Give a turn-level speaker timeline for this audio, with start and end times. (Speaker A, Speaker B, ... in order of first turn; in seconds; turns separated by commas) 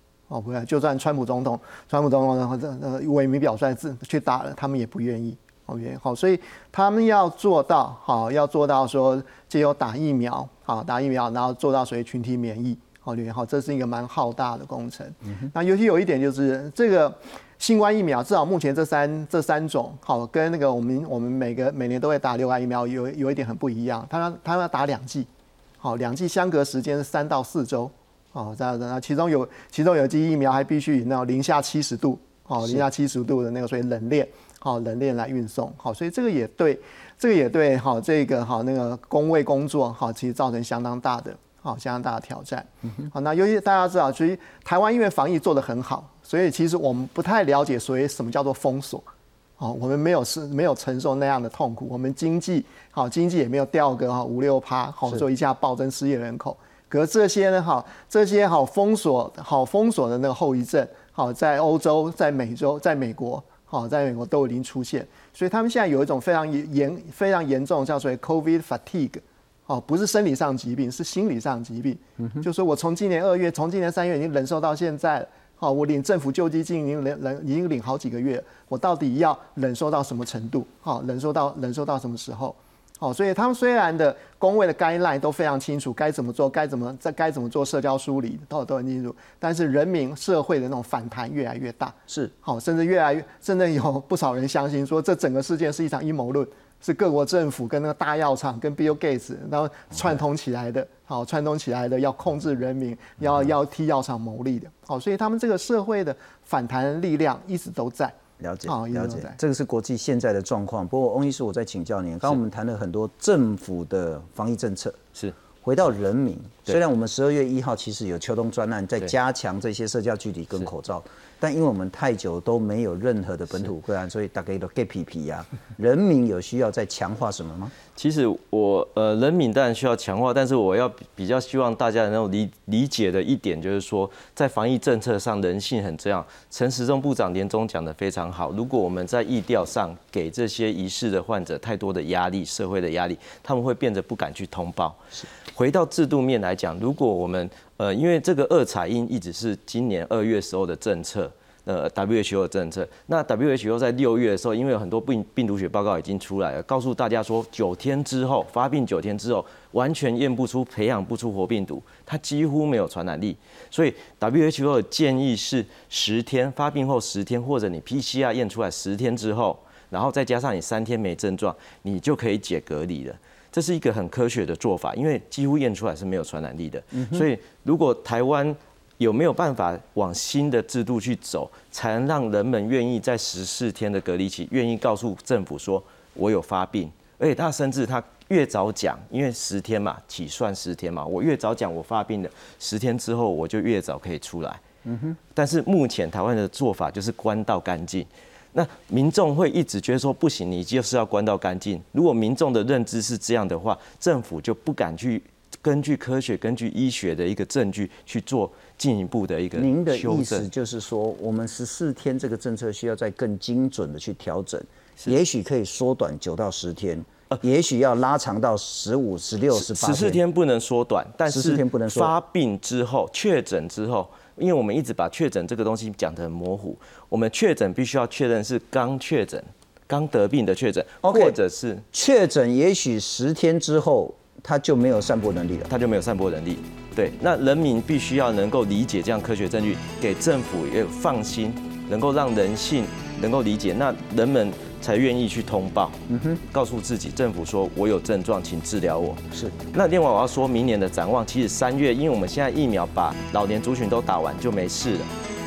Speaker A: 0.3-25.3, Speaker A: 25.8-49.1, Speaker A: 49.6-109.4, Speaker B: 108.4-115.0, Speaker B: 115.6-127.7, Speaker C: 128.0-194.6, Speaker B: 176.9-177.3, Speaker B: 194.9-195.2, Speaker C: 195.3-210.5, Speaker B: 209.6-220.2, Speaker C: 219.5-231.8, Speaker B: 221.3-222.1, Speaker B: 231.0-231.4, Speaker B: 231.9-235.7, Speaker C: 235.7-255.1, Speaker B: 246.1-246.4